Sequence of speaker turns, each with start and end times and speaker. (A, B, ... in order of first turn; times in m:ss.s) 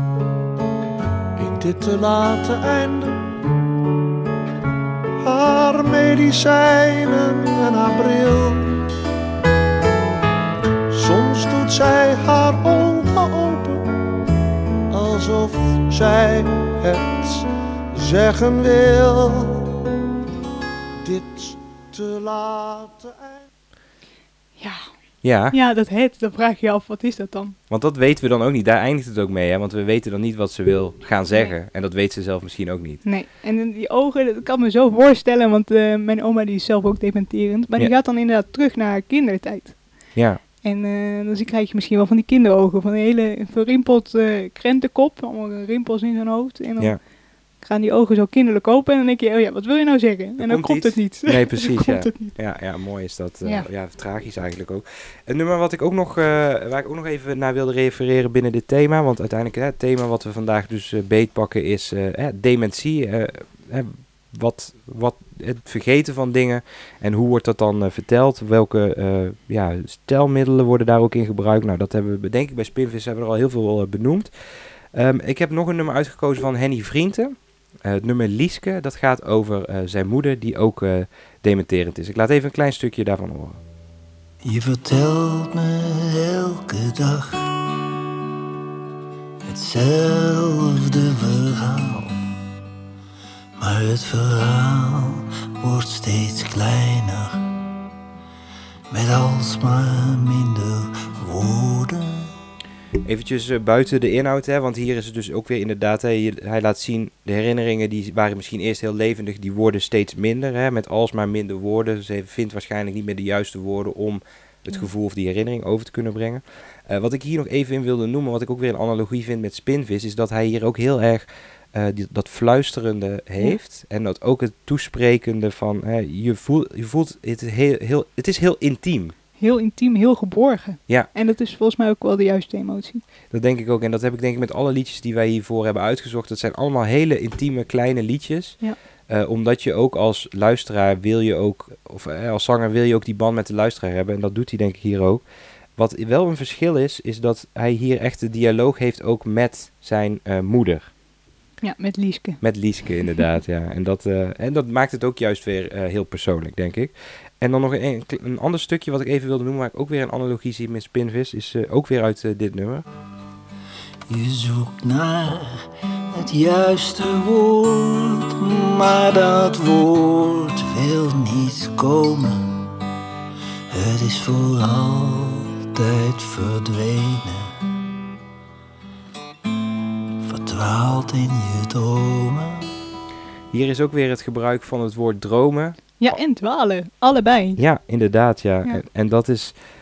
0:01.4-0:03.3 A
0:05.2-0:08.7 A
0:10.9-0:13.8 A
0:14.9-0:19.7 A
0:21.0-0:23.4 A
0:24.6-0:24.9 B
0:25.2-0:25.6 C
0:25.5-0:27.6 B
0:27.7-0:33.0 C
0:33.0-0:40.1 B
0:40.1-0:40.4 C
0:40.6-0:47.0 B
0:47.6-0:52.3 B
0:50.4-1:14.3 C
1:14.9-1:23.6 C
1:24.4-1:27.5 D
1:29.4-1:32.2 D
1:33.6-1:37.4 D
1:38.9-1:42.3 D
1:43.0-2:09.1 C
2:09.4-2:13.0 B
2:13.3-2:25.2 C
2:25.8-2:30.9 C
2:31.6-2:32.4 B
2:32.4-2:42.8 C
2:44.1-2:52.6 D
2:53.7-2:57.6 D
3:00.2-3:02.7 D
3:03.5-3:06.2 C
3:06.0-3:07.6 B
3:07.6-3:09.5 C